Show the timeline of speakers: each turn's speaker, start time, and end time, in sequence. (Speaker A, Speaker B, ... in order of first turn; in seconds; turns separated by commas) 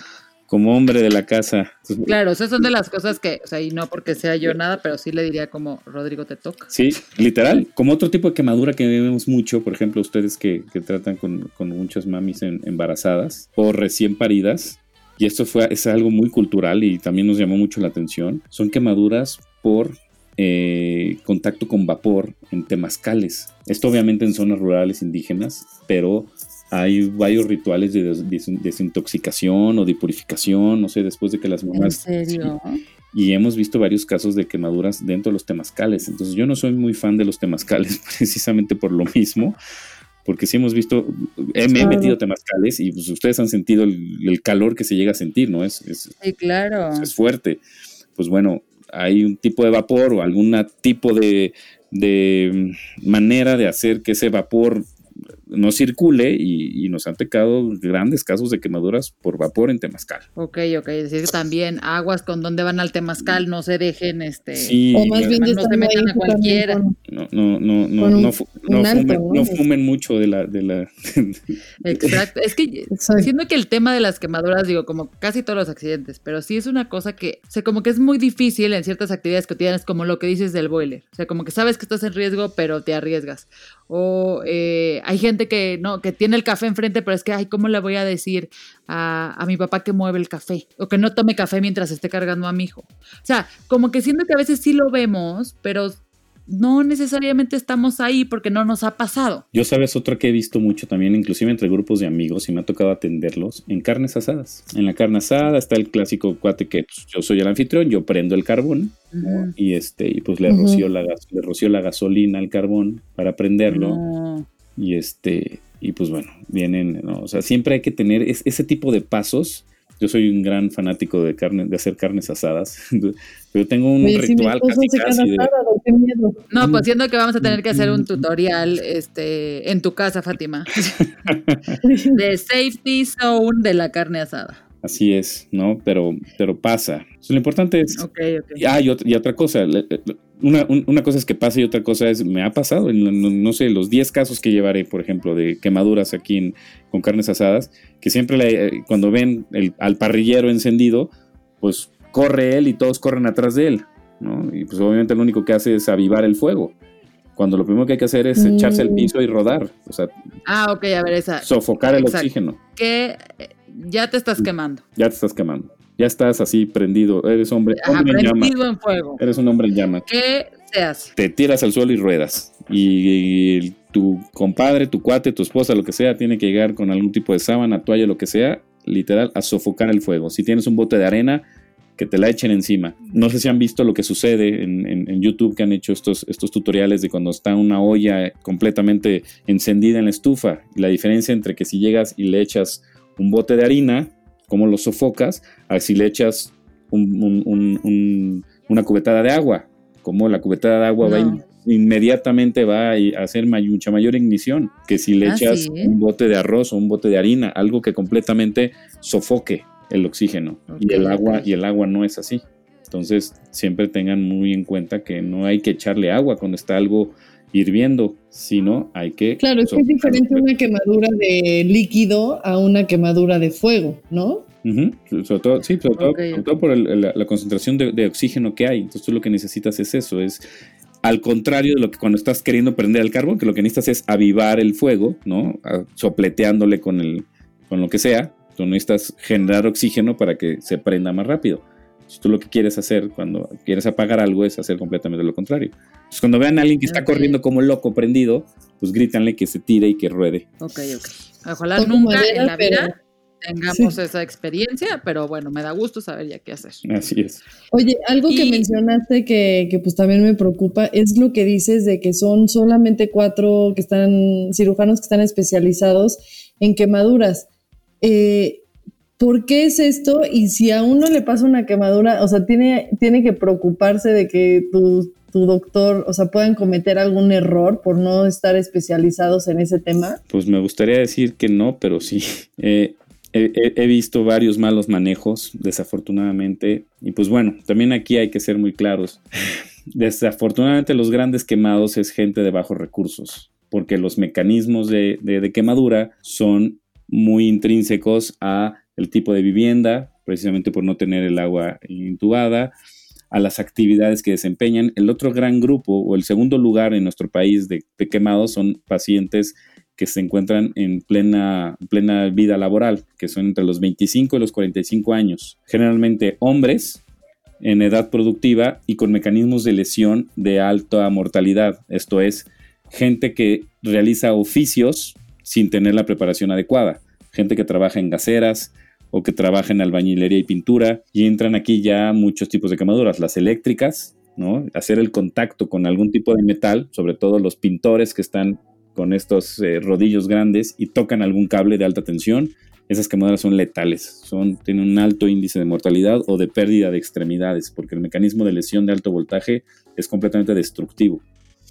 Speaker A: 0.5-2.1, Speaker B: 2.0-6.7, Speaker A: 6.7-32.5, Speaker B: 31.7-32.8, Speaker A: 33.1-39.6, Speaker A: 40.2-46.1, Speaker B: 41.6-42.0, Speaker C: 41.8-42.2, Speaker B: 46.2-47.1, Speaker A: 47.0-47.6, Speaker A: 48.2-54.9, Speaker A: 55.5-60.2, Speaker B: 60.4-66.8, Speaker A: 64.5-65.4, Speaker C: 64.9-67.0, Speaker A: 67.1-72.2, Speaker C: 68.0-69.6, Speaker B: 71.8-99.5, Speaker C: 73.0-73.3, Speaker A: 99.5-114.0, Speaker B: 109.1-109.5, Speaker C: 110.5-110.8, Speaker B: 113.7-114.5, Speaker A: 114.8-125.5, Speaker C: 124.0-126.4, Speaker B: 126.5-131.0, Speaker A: 126.6-126.8, Speaker A: 127.4-128.2, Speaker A: 131.0-131.8, Speaker C: 131.8-132.2, Speaker B: 132.1-134.6, Speaker A: 134.8-138.0, Speaker B: 138.0-138.6, Speaker A: 138.6-156.7, Speaker A: 157.4-160.1, Speaker C: 158.3-159.1, Speaker B: 160.4-164.8, Speaker A: 161.4-162.6, Speaker A: 164.9-168.6, Speaker B: 167.8-169.2, Speaker A: 169.2-170.1, Speaker B: 170.1-171.1, Speaker A: 171.2-181.4, Speaker A: 182.0-220.4, Speaker B: 201.0-201.4, Speaker B: 205.2-205.9, Speaker B: 210.7-211.5, Speaker C: 219.4-224.4, Speaker A: 224.6-230.4, Speaker B: 226.0-226.4, Speaker A: 231.0-250.5, Speaker B: 246.9-247.4, Speaker B: 250.6-256.8, Speaker C: 251.8-252.9, Speaker A: 256.8-257.4, Speaker C: 257.7-267.5, Speaker B: 258.3-258.7, Speaker C: 268.0-268.6, Speaker C: 269.2-280.2, Speaker A: 280.3-289.2, Speaker A: 289.9-302.7, Speaker A: 303.3-317.0, Speaker A: 317.6-351.2